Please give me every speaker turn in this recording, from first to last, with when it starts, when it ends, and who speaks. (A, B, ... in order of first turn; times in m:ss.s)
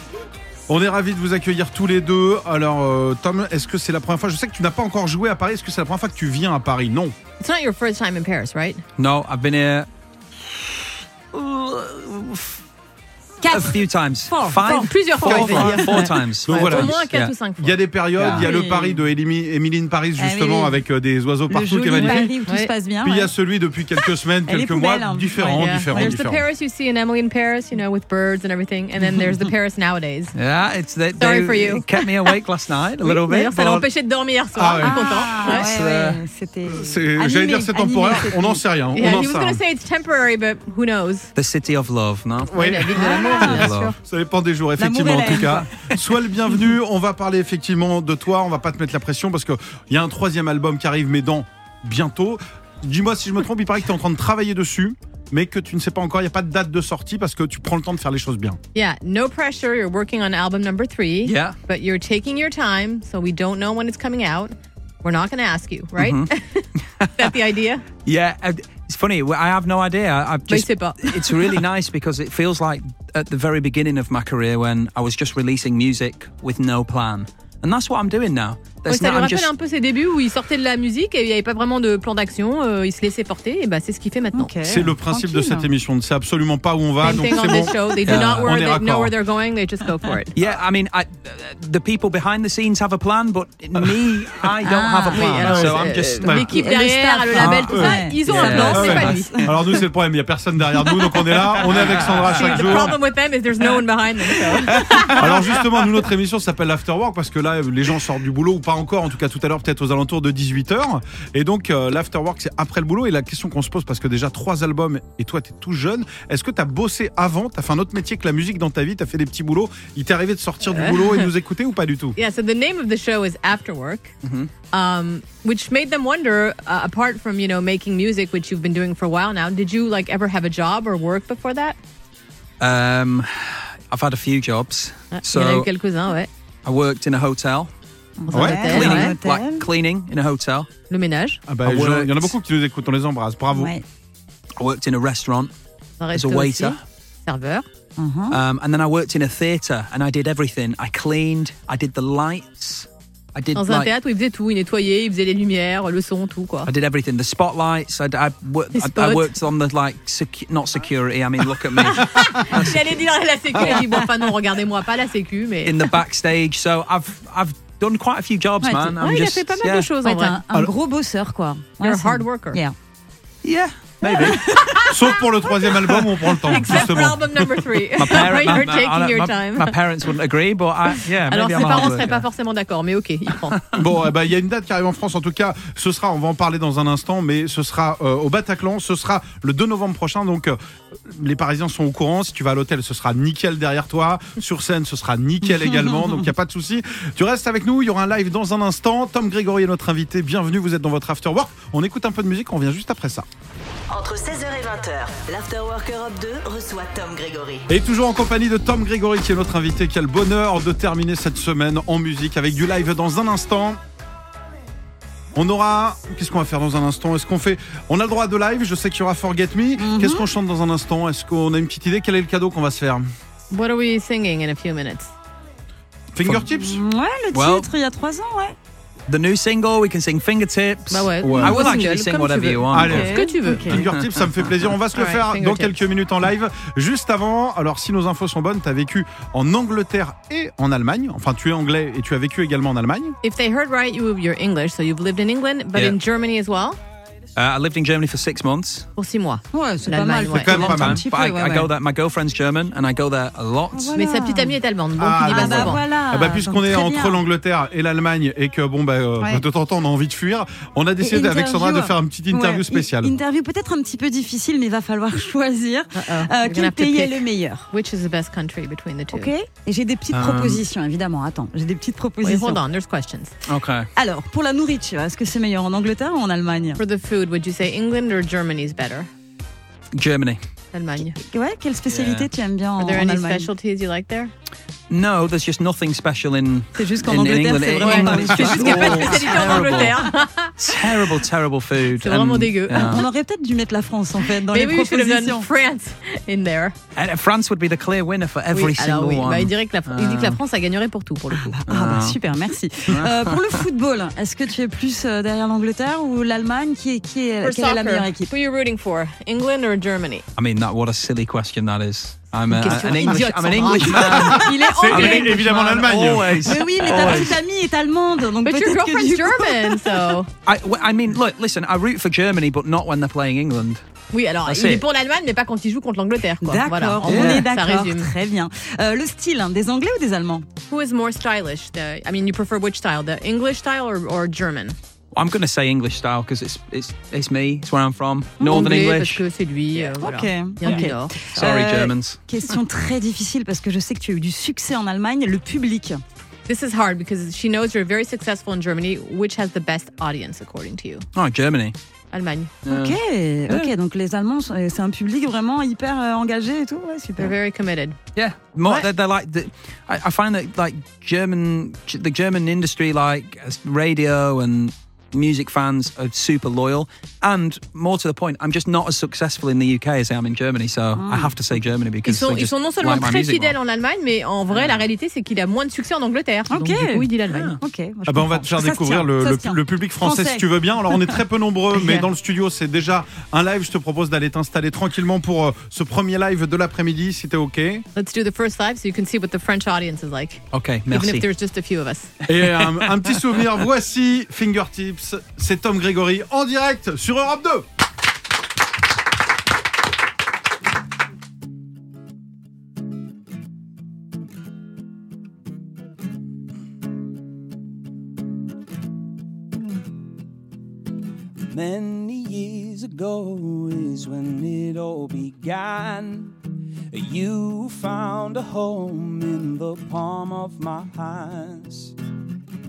0:00.7-0:07.1 A
0:07.4-0:08.8 B
0:09.0-0:09.9 C
0:11.3-0:12.6 C
0:13.5-0:13.7 B
0:13.5-0:17.3 C
0:14.3-0:17.8 B
0:14.3-0:16.0 D
0:15.3-0:15.8 A
0:16.4-0:17.0 A
0:17.6-0:22.4 A
0:18.2-0:18.5 C
0:18.2-0:19.0 D
0:20.2-0:20.8 D
0:21.5-0:23.3 D
0:22.0-0:22.7 B
0:23.0-0:26.4 A
0:24.5-0:26.2 D
0:25.4-0:30.3 B
0:30.4-0:33.8 C
0:31.2-0:32.4 B
0:33.0-0:35.7 B
0:34.6-0:35.3 A
0:34.8-0:38.6 D
0:35.6-0:36.2 C
0:36.7-0:39.6 A
0:38.9-0:41.3 B
0:41.4-0:44.0 C
0:42.5-0:44.0 B
0:42.5-0:58.6 A
0:43.0-0:43.6 D
0:44.8-0:45.7 D
0:58.7-1:07.8 B
1:01.2-1:01.6 C
1:06.0-1:07.3 C
1:08.1-1:19.5 C
1:10.5-1:11.6 B
1:18.9-1:24.5 B
1:24.3-1:25.7 D
1:24.6-1:29.1 A
1:27.0-1:30.4 B
1:27.4-1:27.8 D
1:28.1-1:28.5 C
1:30.4-1:36.4 C
1:34.6-1:35.5 D
1:35.1-1:39.4 B
1:35.4-1:36.5 A
1:36.2-1:39.5 D
1:37.4-1:43.0 A
1:38.3-1:39.1 C
1:41.3-1:45.3 B
1:41.8-1:42.3 C
1:45.1-2:02.2 A
2:00.7-2:01.3 B
2:02.2-2:04.1 B
2:04.2-2:04.5 C
2:04.7-2:11.8 B
2:12.6-2:15.7 C
2:15.1-2:16.3 B
2:16.6-2:17.7 C
2:18.2-2:19.7 D
2:18.3-2:19.2 B
2:18.3-2:18.8 A
2:18.6-2:20.7 C
2:20.9-2:21.4 B
2:21.5-2:23.7 A
2:21.6-2:22.3 C
2:23.5-2:23.8 D
2:24.6-2:25.5 C
2:26.0-2:27.7 B
2:26.1-2:26.8 C
2:28.0-2:28.4 D
2:28.3-2:33.9 C
2:33.6-2:36.7 B
2:36.7-2:43.0 C
2:38.8-2:39.3 B
2:41.8-2:46.0 B
2:42.5-2:42.8 D
2:43.6-2:43.8 C
2:43.6-2:44.1 D
2:45.6-2:49.9 C
2:48.6-2:52.8 D
2:49.0-2:50.4 B
2:51.8-2:52.6 B
2:53.4-2:54.9 C
2:54.1-2:55.0 B
2:54.9-2:57.7 A
2:56.2-2:59.8 B
2:58.0-3:02.2 C
3:01.3-3:03.7 B
3:03.8-3:23.2 A
3:15.6-3:16.2 D
3:23.9-3:27.7 E
3:27.7-3:33.8 A
3:35.3-3:43.1 A
3:39.8-3:40.3 D
3:43.5-3:45.1 B
3:46.1-3:46.8 A
3:46.5-3:48.6 D
3:47.3-3:47.7 C
3:49.1-3:53.1 C
3:50.9-3:53.8 B
3:51.2-3:51.6 A
3:52.7-4:03.2 A
3:52.8-3:53.8 D
3:53.7-3:54.5 C
3:54.9-3:55.8 B
4:03.2-4:06.8 B
4:07.4-4:08.9 C
4:09.0-4:10.6 B
4:09.5-4:11.7 D
4:10.4-4:11.0 A
4:10.6-4:13.9 C
4:13.7-4:14.6 D
4:13.9-4:15.8 B
4:15.0-4:23.1 A
4:15.2-4:17.2 D
4:21.0-4:27.7 D
4:25.9-4:29.3 B
4:29.1-4:32.6 D
4:30.1-4:30.6 C
4:32.2-4:33.3 B
4:33.4-4:33.9 C
4:34.0-4:36.8 D
4:36.8-4:39.1 B
4:39.9-4:40.4 C
4:40.7-4:41.2 B
4:41.2-4:43.5 D
4:41.9-4:42.3 C
4:42.8-4:44.3 B
4:44.9-4:50.0 C
4:46.8-4:50.0 D
4:47.8-4:50.9 B
4:50.6-4:53.1 C
4:52.0-4:53.0 B
4:52.7-4:55.5 D
4:54.4-4:56.8 B
4:57.0-5:00.4 C
4:58.5-5:01.6 B
5:01.3-5:08.3 D
5:01.7-5:02.2 C
5:02.9-5:03.7 C
5:07.4-5:10.2 B
5:10.4-5:17.4 C
5:12.4-5:14.6 B
5:13.9-5:20.2 D
5:14.1-5:17.0 A
5:18.4-5:20.3 B
5:20.4-5:23.8 C
5:24.1-5:28.1 B
5:24.4-5:24.8 C
5:26.4-5:30.5 D
5:27.1-5:27.4 C
5:30.7-5:34.8 B
5:35.1-5:39.2 C
5:38.4-5:41.8 B
5:39.8-5:46.0 D
5:40.6-5:42.6 C
5:46.5-5:51.1 B
5:51.1-5:51.8 C
5:52.1-5:52.5 B
5:52.6-5:53.0 C
5:52.7-5:57.4 D
5:57.2-5:58.0 B
5:58.1-6:13.6 C
6:11.0-6:11.3 D
6:12.0-6:17.6 B
6:14.5-6:14.8 C
6:16.5-6:21.2 D
6:17.3-6:17.6 C
6:18.1-6:27.9 A
6:21.8-6:22.1 D
6:27.9-6:32.1 B
6:30.5-6:31.2 C
6:32.2-6:37.7 A
6:32.3-6:33.2 C
6:51.5-6:56.4 F
6:56.9-7:01.9 F